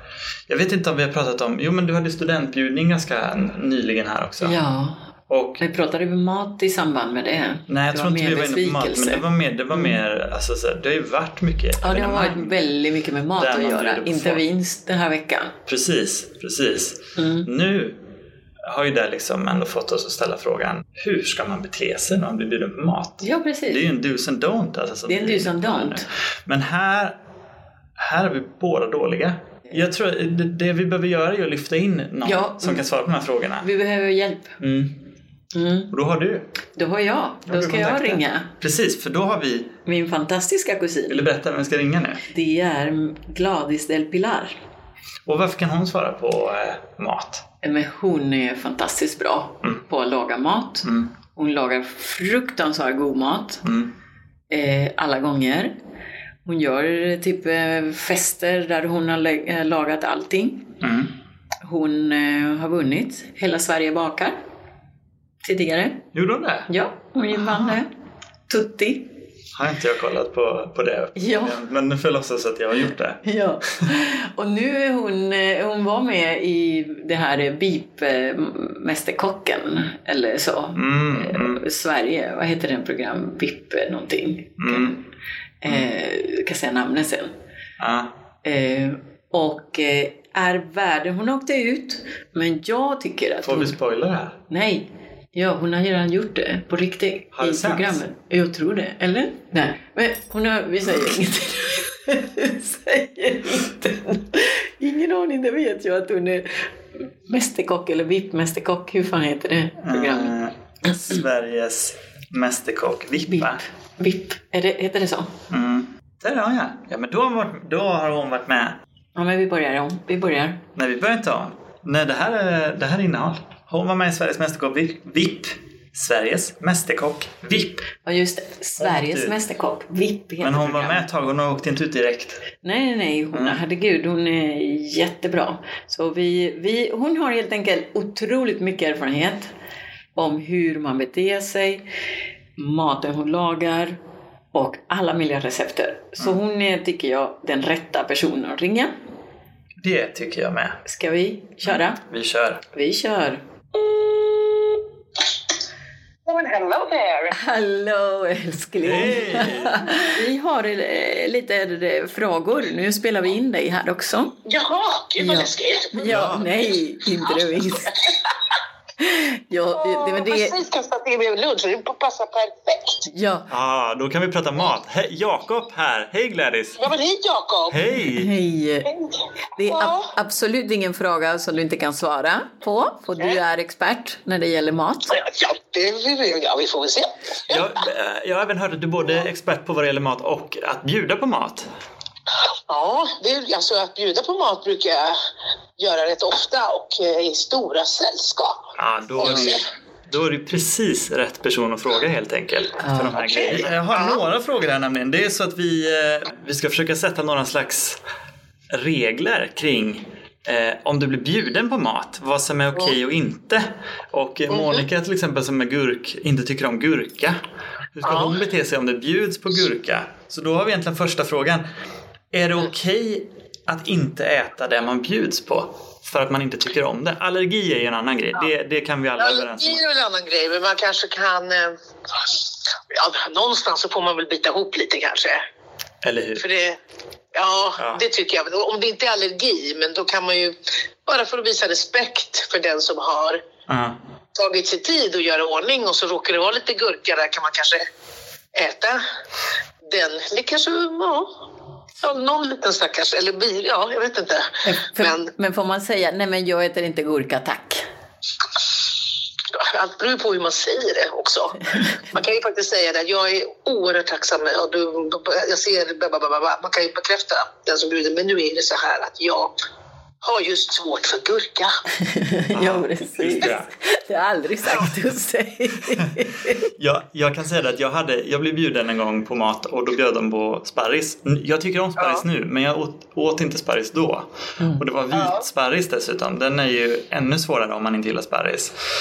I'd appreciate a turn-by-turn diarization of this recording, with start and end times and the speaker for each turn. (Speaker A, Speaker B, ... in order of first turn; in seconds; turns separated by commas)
Speaker A: 0.5-4.6, Speaker B: 4.4-5.0, Speaker A: 5.3-5.6, Speaker B: 5.6-9.9, Speaker A: 7.7-12.7, Speaker B: 11.8-15.6, Speaker A: 13.4-14.4, Speaker A: 15.7-18.0, Speaker B: 17.2-17.5, Speaker A: 18.7-27.2, Speaker B: 23.2-23.9, Speaker B: 25.1-26.1, Speaker A: 28.0-33.7, Speaker B: 32.2-32.8, Speaker B: 33.6-34.6, Speaker A: 34.6-35.0, Speaker B: 35.5-35.9, Speaker A: 35.9-36.5, Speaker B: 36.8-38.5, Speaker A: 37.5-39.8, Speaker B: 39.9-41.2, Speaker A: 41.1-42.2, Speaker B: 42.3-44.5, Speaker A: 45.3-47.5, Speaker B: 47.6-53.6, Speaker A: 50.8-51.1, Speaker A: 53.6-53.9, Speaker B: 54.5-55.7, Speaker B: 56.5-60.8, Speaker A: 60.8-61.1, Speaker B: 61.6-64.4, Speaker B: 65.4-66.1, Speaker A: 66.1-66.7, Speaker B: 66.7-67.9, Speaker A: 67.3-67.8, Speaker B: 68.5-69.1, Speaker A: 69.5-73.2, Speaker B: 71.2-71.6, Speaker B: 73.2-85.0, Speaker A: 80.8-81.6, Speaker A: 84.6-85.0, Speaker B: 85.6-87.3, Speaker A: 87.8-88.1, Speaker B: 88.4-93.8, Speaker A: 93.4-94.4, Speaker B: 94.5-106.7, Speaker A: 97.3-98.0, Speaker B: 107.3-110.3, Speaker A: 109.8-113.6, Speaker B: 113.3-115.3, Speaker A: 115.5-118.8, Speaker B: 119.2-120.6, Speaker A: 120.8-127.8, Speaker B: 128.0-131.0, Speaker A: 128.8-129.4, Speaker A: 130.4-132.4, Speaker B: 132.6-139.5, Speaker A: 133.3-133.6, Speaker B: 140.2-141.9, Speaker B: 142.6-144.0, Speaker B: 144.5-148.9, Speaker A: 149.8-150.8, Speaker B: 150.8-152.0, Speaker A: 151.6-152.6, Speaker B: 152.7-154.4, Speaker C: 156.3-157.3, Speaker B: 157.3-164.4, Speaker A: 158.8-160.0, Speaker C: 164.4-166.3, Speaker B: 165.2-168.0, Speaker A: 166.0-166.5, Speaker C: 167.2-167.9, Speaker B: 169.0-170.6, Speaker C: 169.8-173.1, Speaker B: 173.1-173.5, Speaker A: 173.5-176.9, Speaker C: 176.8-177.8, Speaker A: 177.7-178.3, Speaker B: 178.1-178.9, Speaker C: 178.9-180.1, Speaker B: 179.6-185.2, Speaker C: 185.1-187.7, Speaker A: 187.5-191.7, Speaker C: 192.7-195.2, Speaker C: 195.8-199.7, Speaker A: 198.8-208.0, Speaker B: 202.8-203.2, Speaker C: 203.1-204.2, Speaker A: 208.7-217.4, Speaker C: 214.5-214.8, Speaker A: 218.0-221.6, Speaker C: 218.1-218.3, Speaker A: 222.3-229.8, Speaker C: 229.2-235.4, Speaker A: 236.0-236.4, Speaker C: 236.4-236.8, Speaker C: 237.3-240.6, Speaker A: 237.8-238.0, Speaker C: 241.1-243.4, Speaker A: 243.7-244.0, Speaker C: 244.3-247.9, Speaker C: 248.5-249.0, Speaker C: 249.9-251.3, Speaker C: 252.0-255.3, Speaker B: 254.6-257.8, Speaker C: 259.5-269.5, Speaker C: 270.2-271.8, Speaker B: 272.0-276.7, Speaker A: 272.5-273.7, Speaker A: 276.8-288.7, Speaker C: 285.1-285.4